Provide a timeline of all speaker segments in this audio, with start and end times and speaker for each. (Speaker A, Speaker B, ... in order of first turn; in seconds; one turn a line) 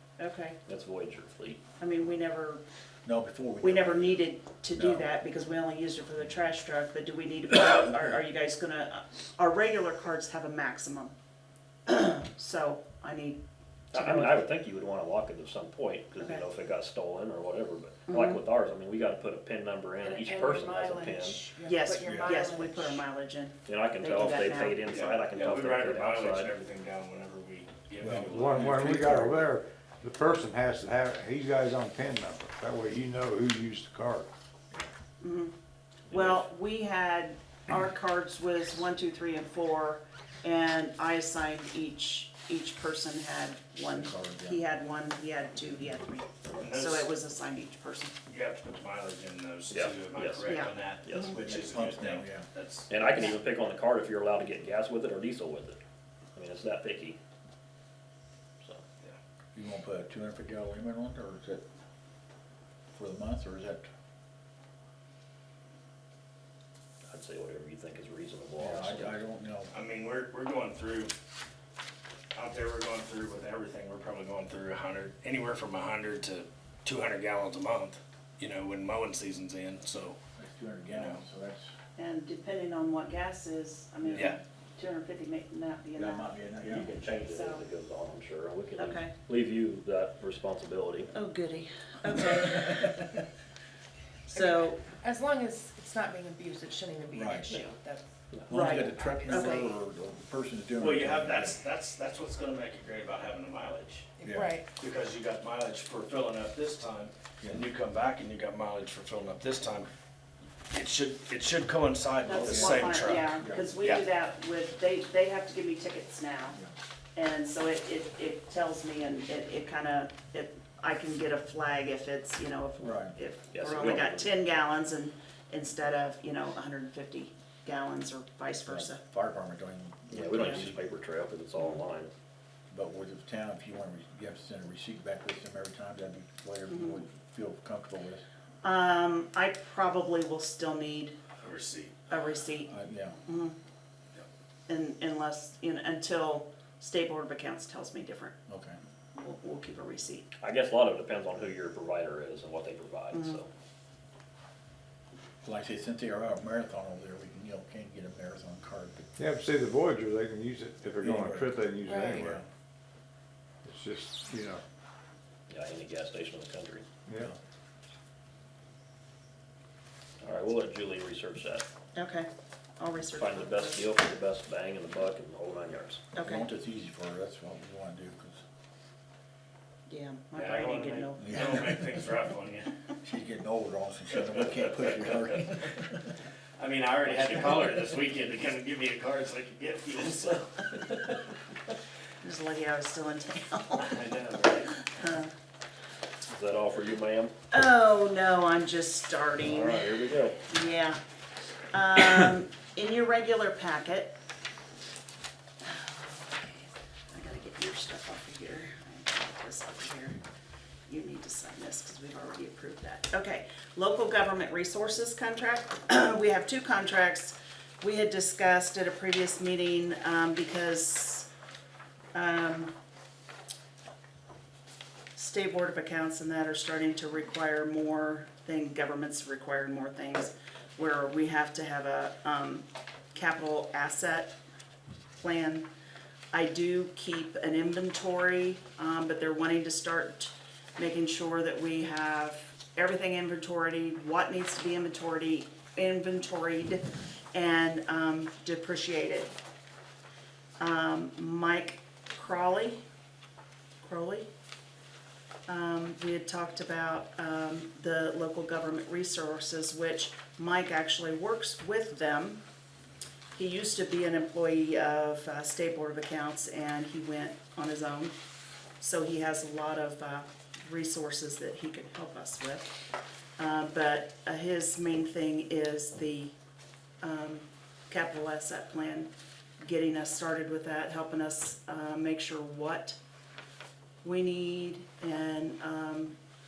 Speaker A: 0.2-0.6
Speaker B: 0.7-1.6
Speaker A: 1.8-2.6
Speaker C: 3.0-4.2
Speaker A: 3.6-11.1
Speaker C: 4.8-5.0
Speaker A: 11.9-13.4
Speaker A: 13.9-14.4
Speaker B: 13.9-21.4
Speaker A: 16.2-16.4
Speaker A: 18.1-18.4
Speaker D: 20.0-23.0
Speaker A: 21.6-25.2
Speaker C: 22.0-22.5
Speaker B: 23.7-26.5
Speaker E: 24.9-29.0
Speaker C: 28.0-28.3
Speaker F: 28.1-34.3
Speaker A: 35.2-35.5
Speaker A: 36.1-48.1
Speaker C: 43.9-44.6
Speaker E: 46.6-47.1
Speaker E: 48.3-53.1
Speaker B: 49.7-51.4
Speaker A: 50.4-51.4
Speaker C: 51.3-52.5
Speaker B: 52.9-55.8
Speaker B: 56.3-57.2
Speaker C: 59.5-61.6
Speaker C: 62.9-63.9
Speaker B: 67.1-69.2
Speaker C: 68.6-69.7
Speaker E: 69.7-71.1
Speaker E: 72.3-80.2
Speaker C: 80.3-81.7
Speaker E: 80.9-81.2
Speaker A: 82.0-87.6
Speaker C: 84.0-84.3
Speaker C: 86.0-86.9
Speaker B: 86.7-91.1
Speaker A: 88.8-89.1
Speaker A: 91.1-93.1
Speaker A: 94.3-94.8
Speaker D: 94.3-99.7
Speaker C: 97.1-97.5
Speaker C: 98.5-101.6
Speaker A: 98.5-99.7
Speaker E: 100.8-104.2
Speaker D: 104.2-104.7
Speaker C: 104.2-104.5
Speaker E: 104.8-109.9
Speaker C: 107.4-107.7
Speaker E: 110.7-114.0
Speaker A: 112.2-116.6
Speaker C: 112.4-113.8
Speaker A: 117.2-129.0
Speaker C: 122.8-123.1
Speaker B: 123.5-124.3
Speaker C: 128.7-130.8
Speaker A: 130.1-130.6
Speaker B: 130.1-132.1
Speaker A: 131.6-131.8
Speaker C: 132.7-138.2
Speaker A: 136.7-137.0
Speaker A: 138.6-141.2
Speaker E: 141.4-142.0
Speaker A: 142.1-142.7
Speaker C: 142.7-143.2
Speaker A: 143.2-143.5
Speaker A: 144.7-148.4
Speaker C: 148.5-148.8
Speaker A: 149.1-150.3
Speaker B: 150.4-153.5
Speaker A: 153.1-153.4
Speaker C: 155.4-159.1
Speaker F: 159.2-162.4
Speaker C: 161.0-161.5
Speaker D: 161.8-162.2
Speaker C: 162.1-162.4
Speaker F: 163.6-164.6
Speaker B: 165.5-166.8
Speaker F: 167.1-167.3
Speaker B: 170.2-171.6
Speaker A: 171.9-172.3
Speaker A: 172.8-173.9
Speaker B: 173.1-176.0
Speaker A: 176.1-176.4
Speaker C: 176.2-178.4
Speaker A: 179.9-182.1
Speaker E: 180.3-182.7
Speaker C: 181.2-181.9
Speaker C: 183.0-186.1
Speaker E: 184.4-185.3
Speaker E: 186.6-191.2
Speaker B: 187.1-187.7
Speaker A: 192.2-194.0
Speaker E: 193.8-194.8
Speaker A: 194.7-195.3
Speaker B: 196.3-197.3
Speaker A: 197.5-199.9
Speaker B: 199.4-200.4
Speaker A: 200.5-201.0
Speaker A: 201.7-204.1
Speaker A: 205.6-210.2
Speaker A: 210.9-221.3
Speaker A: 222.1-222.7
Speaker A: 225.1-234.3
Speaker A: 235.1-235.7
Speaker A: 236.3-246.8
Speaker A: 247.3-249.3
Speaker A: 250.6-252.8
Speaker A: 253.8-254.3
Speaker A: 255.5-262.4
Speaker A: 263.3-268.1
Speaker A: 268.8-272.7
Speaker A: 273.4-276.3
Speaker A: 277.0-279.1
Speaker A: 279.6-283.0
Speaker A: 284.0-286.1